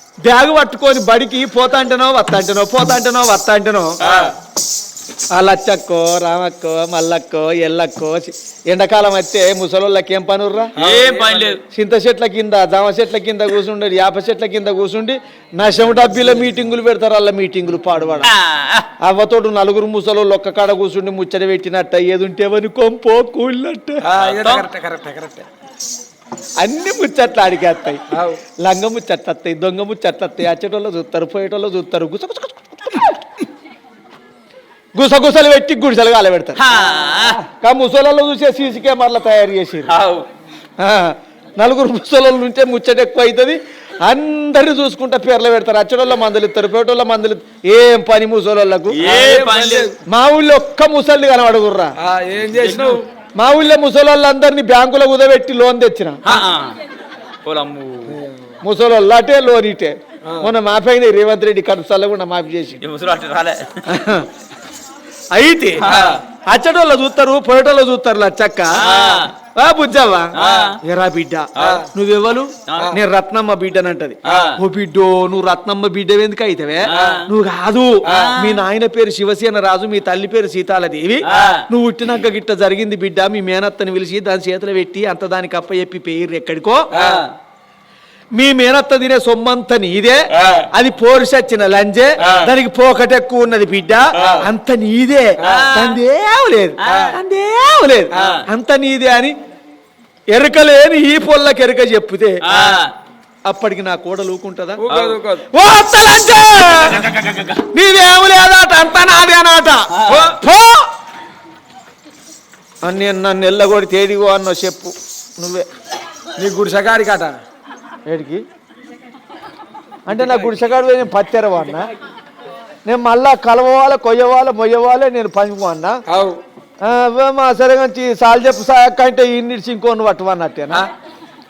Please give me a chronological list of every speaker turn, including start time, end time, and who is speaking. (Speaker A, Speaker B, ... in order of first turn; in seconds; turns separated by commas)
Speaker A: 0.2-4.0, Speaker B: 4.0-4.3, Speaker C: 4.0-4.3, Speaker A: 5.3-10.7, Speaker C: 10.8-11.6, Speaker B: 10.8-11.6, Speaker A: 11.7-18.3, Speaker B: 18.2-18.9, Speaker A: 19.0-24.0, Speaker C: 24.0-25.5, Speaker B: 24.2-24.7, Speaker A: 26.6-28.0, Speaker C: 28.1-28.4, Speaker A: 28.6-33.5, Speaker A: 35.0-36.6, Speaker B: 36.6-37.4, Speaker A: 37.6-39.9, Speaker B: 39.9-40.3, Speaker A: 40.8-49.0, Speaker B: 48.9-49.9, Speaker C: 49.0-50.0, Speaker A: 50.1-52.0, Speaker C: 52.0-53.0, Speaker B: 52.5-53.0, Speaker A: 53.4-56.2, Speaker B: 56.3-56.8, Speaker B: 57.4-58.2, Speaker A: 58.6-62.8, Speaker C: 60.2-60.5, Speaker B: 62.8-63.8, Speaker A: 63.9-64.3, Speaker A: 65.3-65.8, Speaker B: 65.8-66.2, Speaker C: 65.8-66.2, Speaker A: 66.5-68.8, Speaker B: 68.8-69.3, Speaker A: 69.5-86.9, Speaker B: 70.4-70.8, Speaker B: 71.6-71.9, Speaker C: 71.6-71.9, Speaker B: 74.2-74.6, Speaker B: 76.9-77.3, Speaker B: 78.0-78.6, Speaker C: 78.1-78.4, Speaker B: 81.2-81.6, Speaker C: 86.9-87.3, Speaker B: 87.0-87.3, Speaker A: 88.3-99.4, Speaker C: 90.4-90.7, Speaker C: 94.2-94.4, Speaker C: 95.4-95.7, Speaker B: 95.4-96.0, Speaker C: 96.8-97.2, Speaker C: 98.1-98.4, Speaker B: 98.2-98.4, Speaker A: 100.3-102.4, Speaker B: 102.5-102.9, Speaker A: 103.5-104.8, Speaker C: 104.8-105.5, Speaker B: 104.9-105.2, Speaker A: 105.5-107.0, Speaker A: 107.7-110.9, Speaker B: 109.9-110.3, Speaker A: 112.8-115.7, Speaker C: 116.4-117.4, Speaker A: 118.1-118.4, Speaker A: 120.1-121.9, Speaker A: 122.8-126.0, Speaker C: 126.1-126.4, Speaker A: 126.8-130.8